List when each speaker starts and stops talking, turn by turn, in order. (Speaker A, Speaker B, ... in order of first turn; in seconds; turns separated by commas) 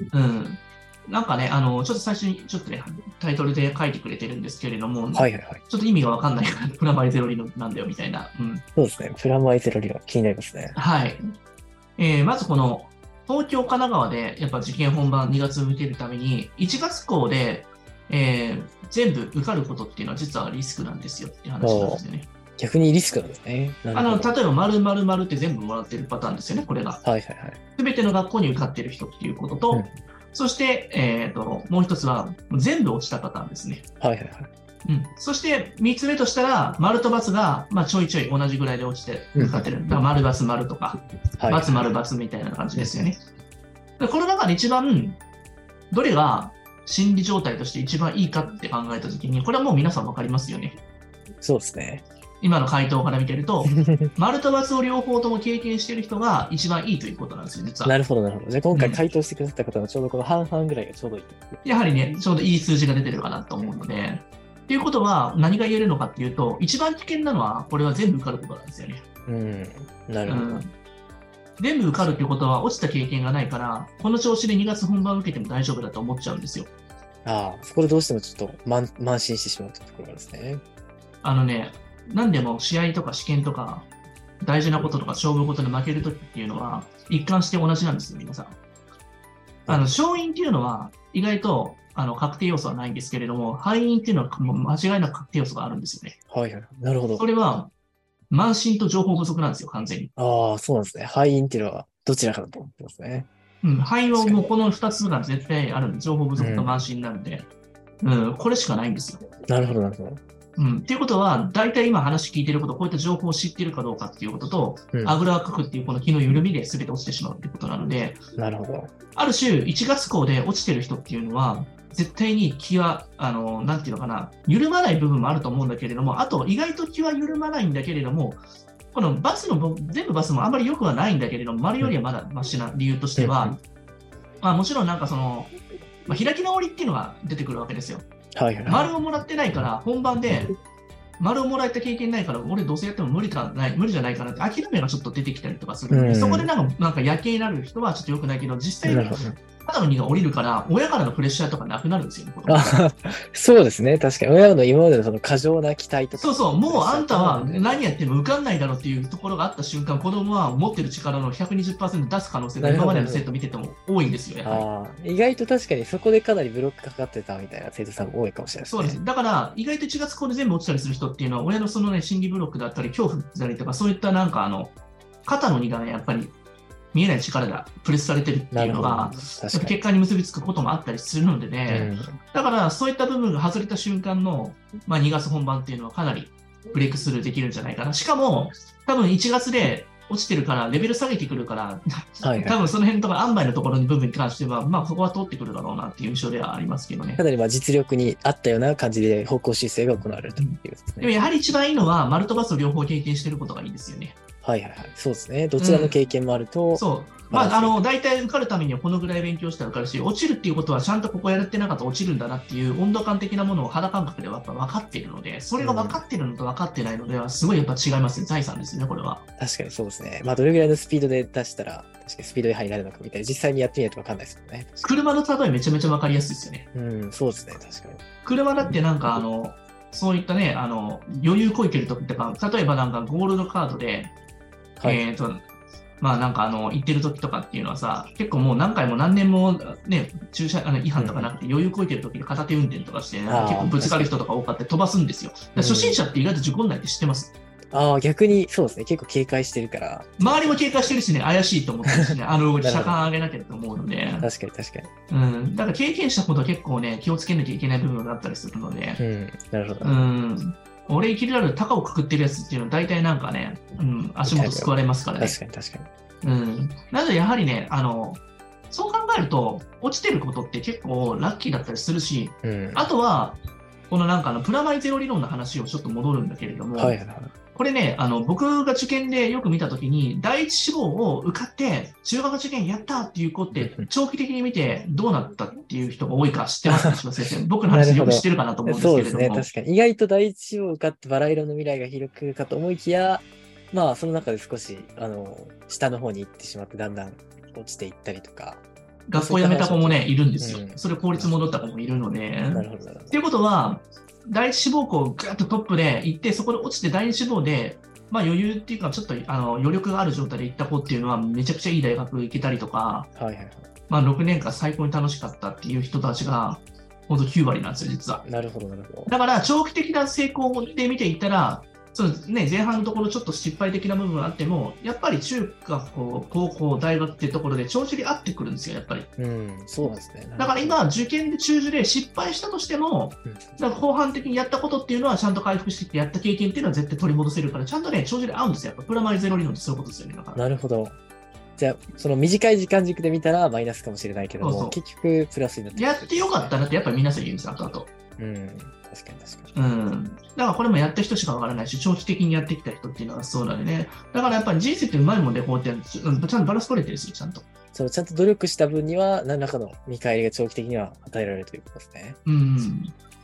Speaker A: 0.1-8.6, Speaker B: 5.1-5.6, Speaker B: 8.8-10.8, Speaker A: 10.8-11.2, Speaker A: 12.0-22.3, Speaker B: 21.6-22.0, Speaker B: 22.6-24.4, Speaker A: 23.9-27.0, Speaker B: 27.0-27.6, Speaker A: 27.8-33.8, Speaker B: 34.0-34.5, Speaker A: 34.9-43.2, Speaker B: 39.4-39.7, Speaker B: 41.4-41.9, Speaker A: 44.0-45.2, Speaker A: 45.9-50.8, Speaker B: 51.4-52.0, Speaker A: 52.4-58.0, Speaker B: 53.7-54.1, Speaker B: 57.9-61.6, Speaker A: 58.7-59.0, Speaker A: 61.6-69.0, Speaker B: 63.6-63.9, Speaker B: 69.3-70.7, Speaker A: 70.3-70.7, Speaker A: 71.6-76.7, Speaker B: 72.0-72.2, Speaker B: 77.2-80.6, Speaker A: 81.2-83.9, Speaker A: 84.4-88.6, Speaker B: 89.7-90.0, Speaker A: 89.7-96.2, Speaker B: 96.3-97.2, Speaker A: 97.2-97.7, Speaker A: 98.3-100.1, Speaker B: 100.2-103.3, Speaker A: 103.6-107.5, Speaker B: 104.1-104.5, Speaker B: 106.4-106.8, Speaker A: 108.0-109.3, Speaker B: 109.5-110.2, Speaker A: 110.6-118.2, Speaker B: 118.4-118.9, Speaker A: 119.2-128.4, Speaker A: 128.9-133.6, Speaker B: 133.2-133.6, Speaker A: 134.4-135.5, Speaker A: 136.1-138.1, Speaker B: 138.4-138.9, Speaker A: 138.7-140.5, Speaker A: 141.2-152.8, Speaker B: 145.9-146.5, Speaker B: 148.8-149.4, Speaker B: 152.5-157.8, Speaker A: 156.1-164.7, Speaker B: 162.6-163.3, Speaker B: 164.4-169.0, Speaker A: 168.7-174.7, Speaker A: 175.3-176.3, Speaker A: 176.9-197.2, Speaker B: 178.5-179.8, Speaker B: 181.7-182.2, Speaker B: 192.2-192.6, Speaker B: 197.2-201.2, Speaker A: 200.4-204.2, Speaker B: 204.4-207.8, Speaker A: 205.6-205.9, Speaker A: 206.7-219.2, Speaker B: 215.6-216.0, Speaker B: 219.4-225.0, Speaker A: 224.8-226.7, Speaker B: 226.7-228.0, Speaker A: 228.2-234.1, Speaker A: 234.8-235.4, Speaker A: 236.0-247.3, Speaker B: 241.0-241.3, Speaker B: 243.3-244.2, Speaker B: 245.6-246.0, Speaker B: 247.7-251.0, Speaker A: 250.2-254.3, Speaker B: 251.9-253.1, Speaker B: 254.2-254.9, Speaker A: 255.1-259.0, Speaker B: 259.0-260.1, Speaker A: 259.8-265.4, Speaker B: 264.3-265.9, Speaker A: 266.2-277.0, Speaker B: 272.4-272.9, Speaker B: 276.8-277.3, Speaker A: 277.5-289.5, Speaker B: 283.6-283.9, Speaker B: 286.7-287.0, Speaker B: 287.7-298.6, Speaker A: 299.1-313.1, Speaker B: 299.1-301.3, Speaker B: 302.5-303.2, Speaker B: 313.1-313.7, Speaker A: 313.9-318.2, Speaker B: 318.2-319.1, Speaker A: 319.1-329.1, Speaker B: 329.2-330.8, Speaker A: 330.4-340.4, Speaker B: 340.4-341.0, Speaker B: 341.6-346.5, Speaker A: 344.4-344.8, Speaker A: 345.8-347.9, Speaker B: 348.2-349.5, Speaker A: 349.6-357.5, Speaker B: 357.7-362.2, Speaker A: 362.3-362.9